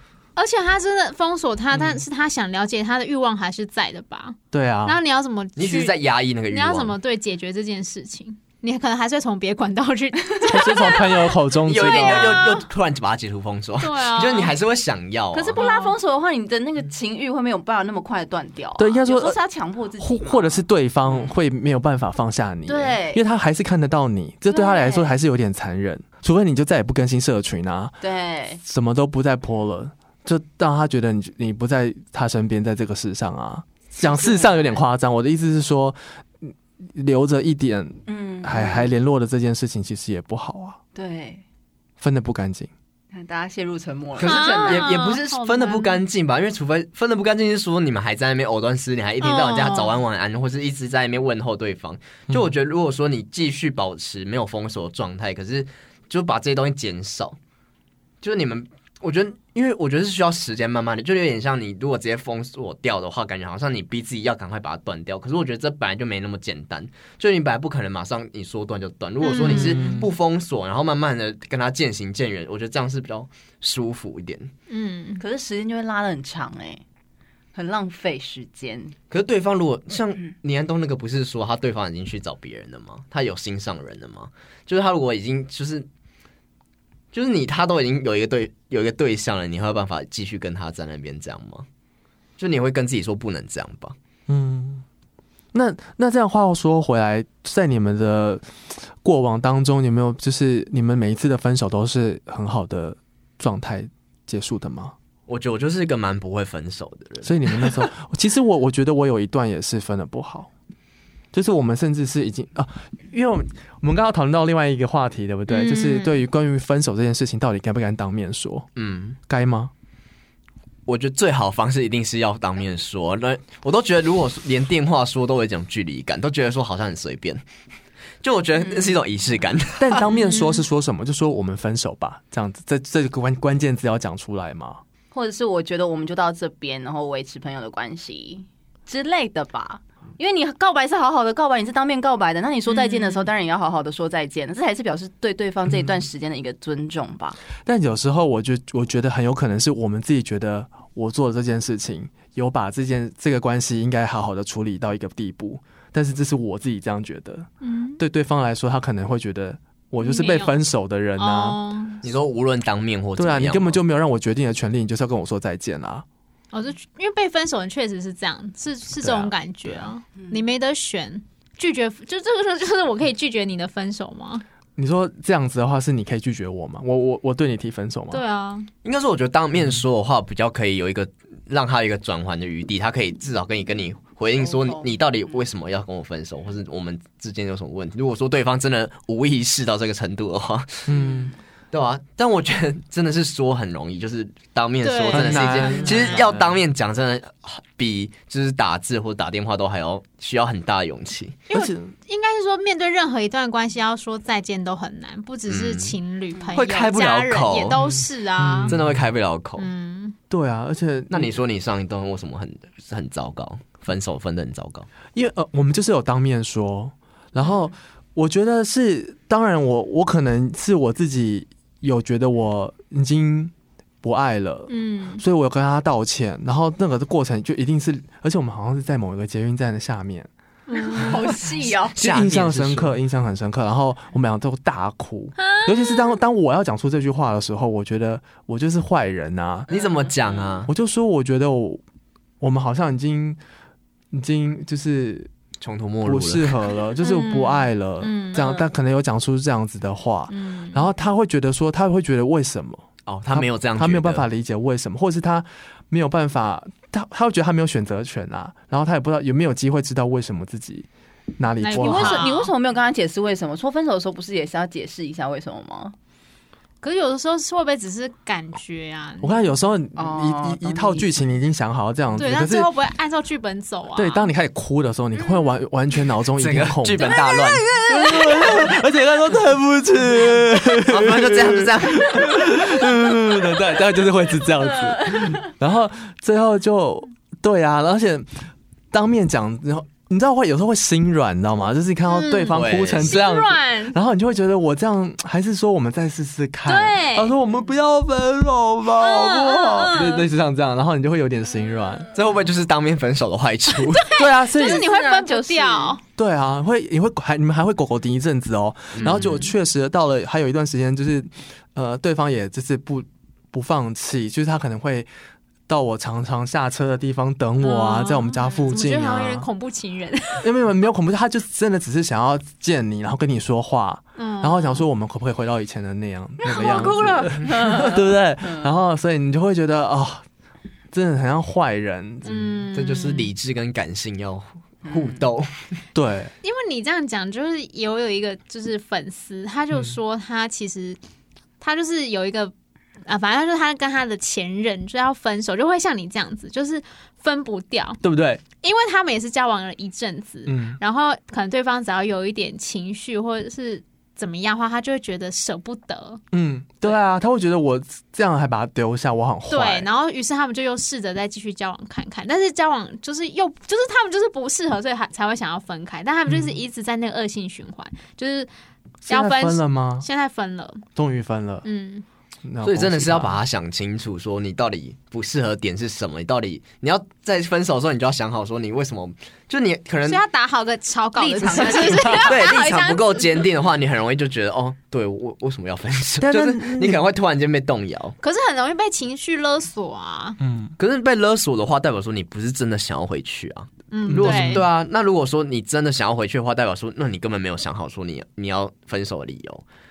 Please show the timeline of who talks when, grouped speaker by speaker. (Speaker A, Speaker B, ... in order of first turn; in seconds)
Speaker A: 0.4-6.0, 6.5-11.4, 12.1-12.6, 13.8-14.6, 15.6-15.9, 44.2-46.0, 49.2-50.0, 69.2-70.0, 74.7-75.2, 115.5-116.2, 130.1-130.6, 142.7-143.3, 157.6-158.0, 160.0-160.6, 161.2-162.0, 166.5-174.4, 178.1-178.7, 194.8-196.3, 201.5-208.7, 209.6-210.2, 224.7-225.2, 230.7-231.4, 235.4-236.2, 247.0-248.7, 250.3-250.9, 261.6-262.5, 266.8-269.5, 272.2-274.3, 292.1-294.0, 296.7-297.3, 299.0-300.3, 303.9-306.0, 309.1-309.5, 317.6-320.5, 324.2-324.9, 326.5-326.9, 332.2-333.3, 336.4-341.0, 341.6-342.5, 343.1-348.0, 348.6-356.2, 359.5-368.5, 369.1-370.9, 371.6-372.1, 380.1-383.2, 388.2-390.4, 393.9-394.7
Speaker B: 4.5-5.0, 10.5-12.4, 18.8-19.4, 20.0-28.0, 28.6-40.8, 42.0-42.7, 69.4-70.1, 94.3-94.8, 95.5-105.0, 107.2-110.5, 111.3-118.7, 119.3-119.7, 129.8-134.8, 147.7-157.5, 158.0-161.6, 163.2-166.1, 174.8-178.2, 190.9-191.3, 195.1-196.5, 201.5-201.9, 207.8-209.0, 210.3-211.4, 215.1-230.3, 230.9-231.2, 232.0-239.7, 240.7-241.8, 242.4-243.4, 244.1-245.3, 246.0-260.9, 261.4-262.3, 269.2-272.7, 273.9-288.4, 288.9-302.1, 304.2-304.9, 306.2-315.1, 315.7-319.5, 320.4-330.2, 330.9-332.7, 335.9-336.3, 348.0-348.4, 350.5-350.8, 356.3-359.9, 369.1-370.1, 371.0-371.7, 372.4-373.4, 386.2-387.0, 390.4-390.7, 394.1-394.7
Speaker C: 5.6-7.0, 11.7-15.6, 44.2-57.4, 58.2-74.5, 79.1-85.9, 87.1-91.7, 92.4-94.0, 105.3-107.8, 118.8-119.2, 120.9-127.4, 128.2-130.1, 162.0-163.8, 178.8-190.9, 191.7-201.4, 205.5-206.0, 206.5-207.8, 208.7-209.7, 211.1-214.9, 231.9-232.9, 239.7-240.7, 245.6-246.6, 253.1-254.3, 276.4-277.7, 280.9-282.7, 292.5-293.2, 302.1-304.1, 308.9-309.5, 332.7-335.8, 372.6-380.2, 382.1-388.2, 390.8-399.6
Speaker D: 11.8-12.6, 15.3-21.3, 22.7-23.2, 24.5-25.1, 28.0-28.6, 34.0-34.8, 38.1-38.9, 41.0-41.4, 43.1-45.0, 75.2-76.8, 77.5-79.0, 135.1-147.4, 184.5-184.9, 190.9-191.3, 230.9-232.0, 239.7-240.0, 261.8-265.9, 270.0-271.1, 304.6-306.0, 326.4-328.7, 334.9-335.2, 381.2-383.0